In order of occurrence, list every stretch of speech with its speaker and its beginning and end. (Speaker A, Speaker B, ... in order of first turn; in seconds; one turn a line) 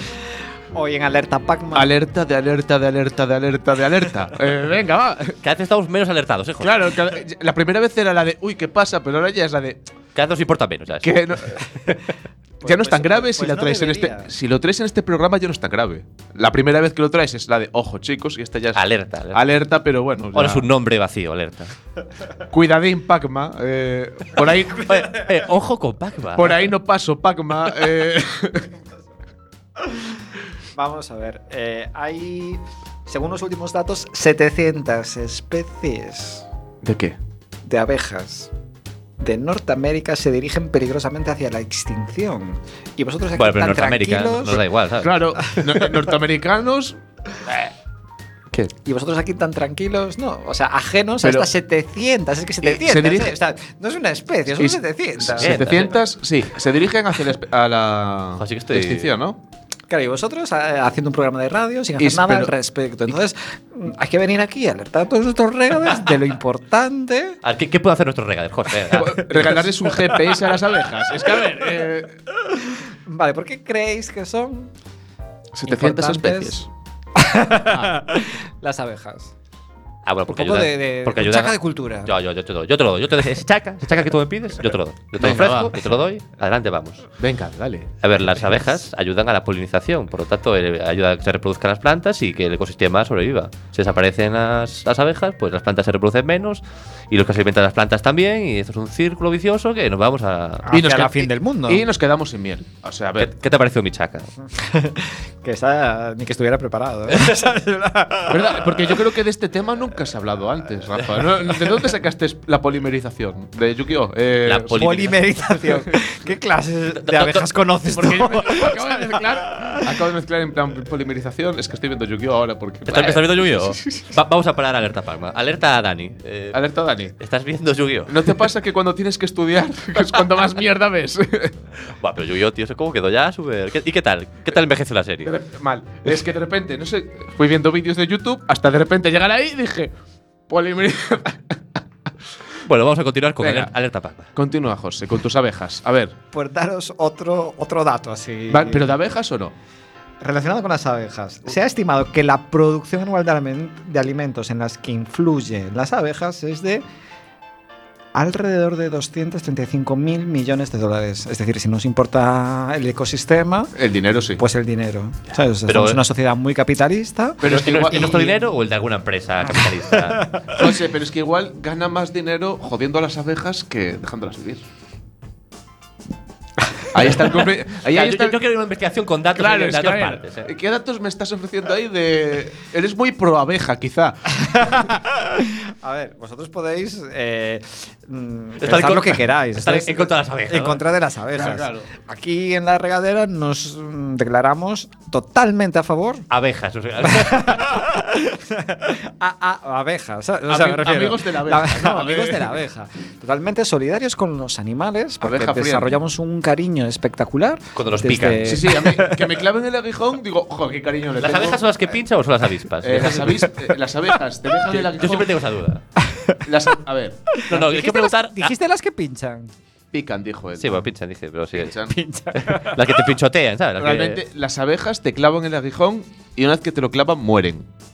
Speaker A: 0.7-1.9
Speaker B: 1.7-5.4
Speaker C: 5.4-6.8
Speaker B: 6.6-9.8
Speaker C: 10.1-11.2
Speaker B: 11.0-11.9
Speaker A: 12.6-14.3
Speaker B: 12.6-20.7
Speaker C: 18.7-19.4
Speaker C: 20.3-21.7
Speaker B: 22.5-25.2
Speaker C: 24.7-26.6
Speaker B: 26.3-28.7
Speaker A: 29.8-30.1
Speaker A: 30.7-36.5
Speaker B: 36.8-37.2
Speaker A: 37.6-38.5
Speaker A: 39.2-44.6
Speaker C: 43.3-45.3
Speaker B: 45.0-47.7
Speaker A: 48.8-55.7
Speaker B: 51.2-51.5
Speaker B: 52.6-53.4
Speaker B: 54.6-59.4
Speaker C: 55.4-55.9
Speaker C: 58.4-59.1
Speaker A: 59.9-67.4
Speaker B: 62.0-62.5
Speaker C: 67.4-69.5
Speaker B: 68.9-72.2
Speaker A: 72.5-74.7
Speaker B: 75.5-76.7
Speaker A: 75.6-76.5
Speaker A: 77.1-79.3
Speaker B: 77.7-77.9
Speaker C: 80.0-87.0
Speaker A: 80.3-82.1
Speaker B: 85.2-85.8
Speaker B: 87.2-87.9
Speaker C: 88.0-100.7
Speaker A: 100.7-101.8
Speaker B: 100.7-103.3
Speaker C: 103.2-104.3
Speaker A: 104.5-109.0
Speaker B: 108.3-114.9
Speaker C: 114.4-115.4
Speaker A: 114.7-120.0
Speaker C: 117.0-117.5
Speaker B: 117.9-124.1
Speaker C: 122.8-126.6
Speaker B: 126.5-127.1
Speaker C: 127.2-128.3
Speaker B: 128.1-131.5
Speaker C: 132.0-135.3
Speaker B: 135.2-139.9
Speaker B: 140.5-141.6
Speaker C: 142.6-144.3
Speaker B: 143.4-143.7
Speaker B: 144.3-146.1
Speaker A: 146.3-148.9
Speaker B: 148.5-149.5
Speaker A: 150.2-156.8
Speaker A: 158.1-163.7
Speaker B: 163.8-164.4
Speaker A: 164.4-168.3
Speaker C: 165.7-166.0
Speaker B: 167.4-168.4
Speaker C: 167.4-170.3
Speaker A: 170.2-170.7
Speaker B: 170.5-174.6
Speaker B: 176.9-178.4
Speaker C: 177.9-180.5
Speaker B: 179.3-184.6
Speaker A: 184.4-196.2
Speaker C: 188.6-190.8
Speaker B: 191.4-191.9
Speaker C: 196.3-197.6
Speaker A: 197.0-209.3
Speaker B: 200.5-202.6
Speaker B: 205.2-206.0
Speaker C: 207.7-208.6
Speaker B: 208.4-211.9
Speaker C: 211.2-213.5
Speaker B: 212.8-215.4
Speaker C: 214.7-215.8
Speaker B: 216.4-217.4
Speaker C: 217.5-218.5
Speaker A: 217.5-219.5
Speaker B: 219.9-220.9
Speaker C: 220.6-221.8
Speaker B: 221.5-221.9
Speaker A: 221.8-222.9
Speaker C: 222.3-224.2
Speaker B: 223.8-227.6